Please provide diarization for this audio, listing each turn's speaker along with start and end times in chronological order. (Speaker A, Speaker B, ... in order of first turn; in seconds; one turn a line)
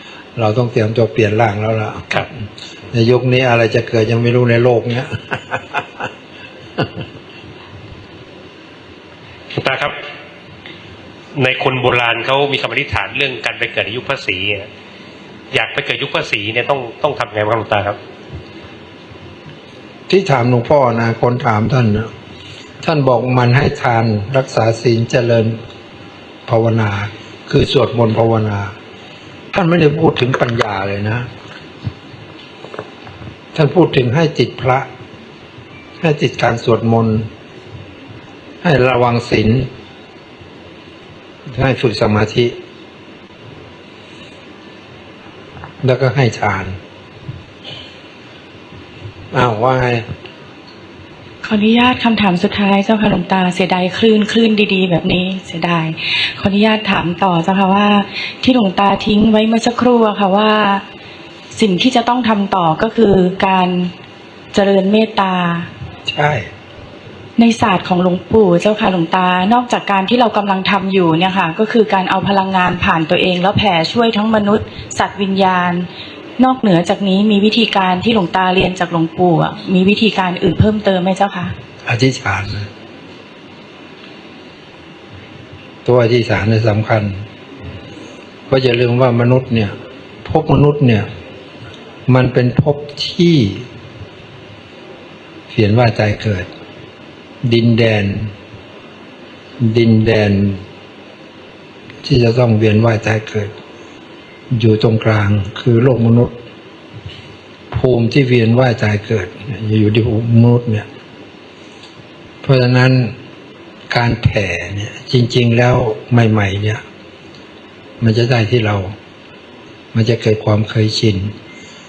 Speaker A: 0.4-2.4
Speaker A: 2.9-6.1
Speaker B: 9.5-10.0
Speaker B: 11.3-14.7
Speaker B: 15.5-18.0
Speaker A: 20.1-22.1
Speaker A: 22.8-25.6
Speaker A: 26.5-28.7
Speaker A: 29.5-31.3
Speaker A: 33.5-34.9
Speaker A: 36.0-37.3
Speaker A: 38.6-39.7
Speaker A: 41.5-42.6
Speaker A: 45.8-46.8
Speaker A: 49.3-50.1
Speaker C: 51.4-60.8
Speaker C: 61.5-63.9
Speaker C: 64.5-65.7
Speaker A: 66.1-66.5
Speaker C: 67.4-75.9
Speaker C: 76.4-81.5
Speaker A: 81.9-82.7
Speaker A: 85.8-87.2
Speaker A: 88.5-89.7
Speaker A: 90.2-91.1
Speaker A: 92.1-93.7
Speaker A: 95.5-96.5
Speaker A: 97.4-98.3
Speaker A: 99.6-100.6
Speaker A: 102.0-103.5
Speaker A: 104.5-106.3
Speaker A: 107.7-110.9
Speaker A: 112.4-113.2
Speaker A: 113.9-116.8
Speaker A: 118.0-118.9
Speaker A: 119.9-121.3